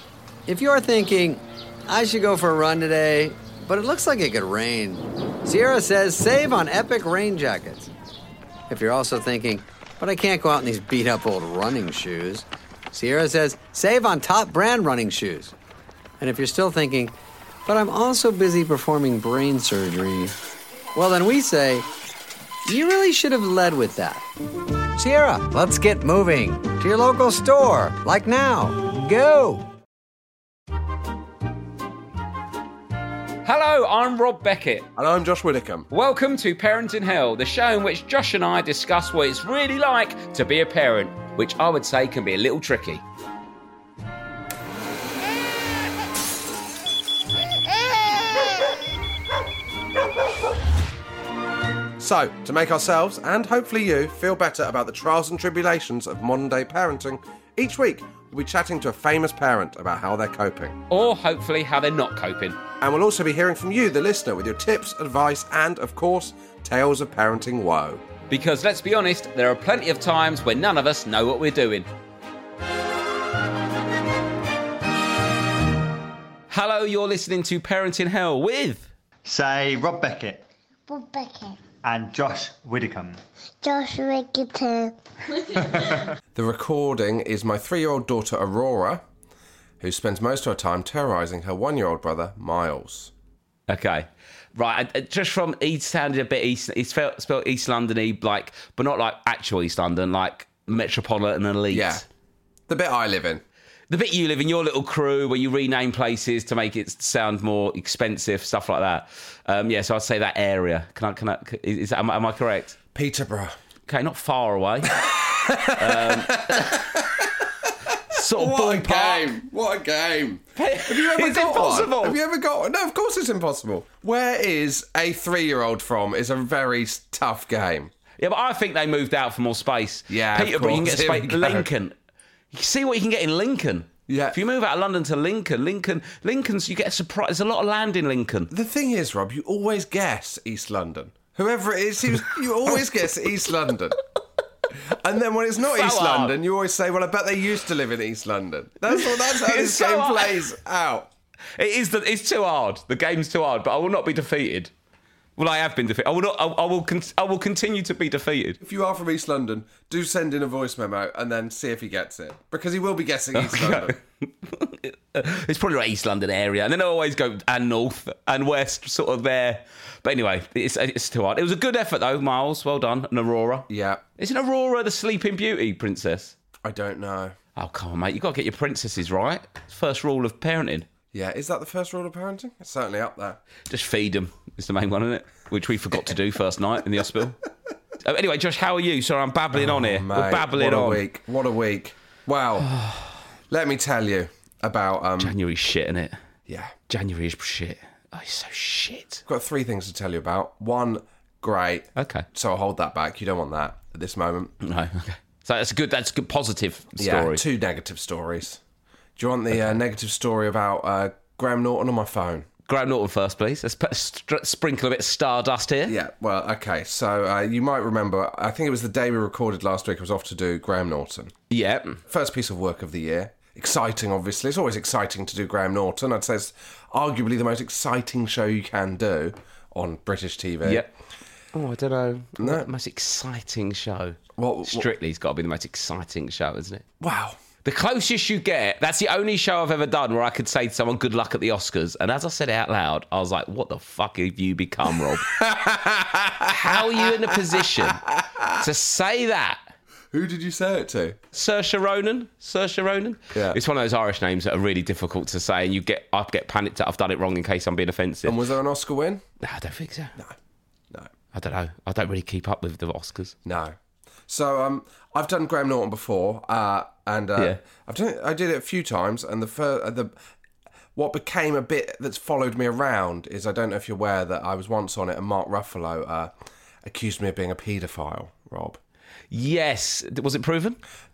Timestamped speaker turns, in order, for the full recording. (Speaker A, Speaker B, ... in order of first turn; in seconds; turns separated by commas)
Speaker A: 0.5-7.9, Speaker A: 8.7-15.5, Speaker A: 16.2-17.1, Speaker A: 17.7-20.4, Speaker A: 20.9-21.9, Speaker A: 22.7-24.3, Speaker A: 24.9-29.7, Speaker B: 33.4-34.9, Speaker C: 35.0-35.9, Speaker B: 35.9-43.0, Speaker C: 52.0-60.8, Speaker B: 60.9-62.6, Speaker C: 62.8-68.0, Speaker B: 68.3-71.9, Speaker B: 76.5-78.9, Speaker D: 79.2-80.5, Speaker E: 80.9-81.6, Speaker D: 81.8-83.2, Speaker E: 83.6-85.0, Speaker C: 86.3-89.0, Speaker C: 89.8-93.1, Speaker B: 93.7-102.0, Speaker C: 101.7-102.0, Speaker C: 102.7-103.4, Speaker B: 103.9-112.8, Speaker C: 113.0-113.6, Speaker B: 113.9-115.1, Speaker C: 114.9-127.9, Speaker B: 115.8-116.9, Speaker B: 118.1-119.3, Speaker B: 120.6-122.2, Speaker B: 128.2-131.9, Speaker C: 130.1-131.7, Speaker B: 132.5-138.5, Speaker C: 134.1-134.4, Speaker C: 138.5-144.0, Speaker C: 144.9-151.1, Speaker B: 145.7-146.4, Speaker B: 149.3-150.5, Speaker B: 151.6-154.7, Speaker B: 155.4-158.6, Speaker C: 158.6-164.0, Speaker B: 163.3-176.3, Speaker C: 173.7-174.0, Speaker C: 176.6-177.4, Speaker B: 177.6-180.9, Speaker C: 181.1-183.4, Speaker B: 183.7-187.4, Speaker B: 188.1-191.0, Speaker C: 189.5-192.7, Speaker B: 192.7-193.1, Speaker C: 193.5-195.4, Speaker B: 195.2-196.2, Speaker C: 196.5-196.8, Speaker B: 196.9-199.2, Speaker C: 199.3-204.6, Speaker B: 202.0-202.3, Speaker B: 204.6-207.4, Speaker C: 207.0-208.6, Speaker C: 209.2-212.5, Speaker B: 212.7-216.0, Speaker C: 215.9-221.3, Speaker B: 221.5-222.0, Speaker C: 222.1-230.8, Speaker B: 230.6-230.9, Speaker B: 231.5-236.8, Speaker C: 232.4-232.7, Speaker C: 234.4-234.9, Speaker C: 237.0-237.4, Speaker B: 237.6-245.3, Speaker C: 245.3-248.6, Speaker B: 246.5-249.6, Speaker C: 250.1-251.2, Speaker B: 251.3-258.4, Speaker C: 253.3-253.6, Speaker C: 258.3-259.2, Speaker B: 259.4-260.2, Speaker B: 261.3-263.4, Speaker C: 263.4-263.8, Speaker C: 264.3-270.1, Speaker C: 270.9-276.3, Speaker C: 276.8-278.8, Speaker B: 279.3-280.8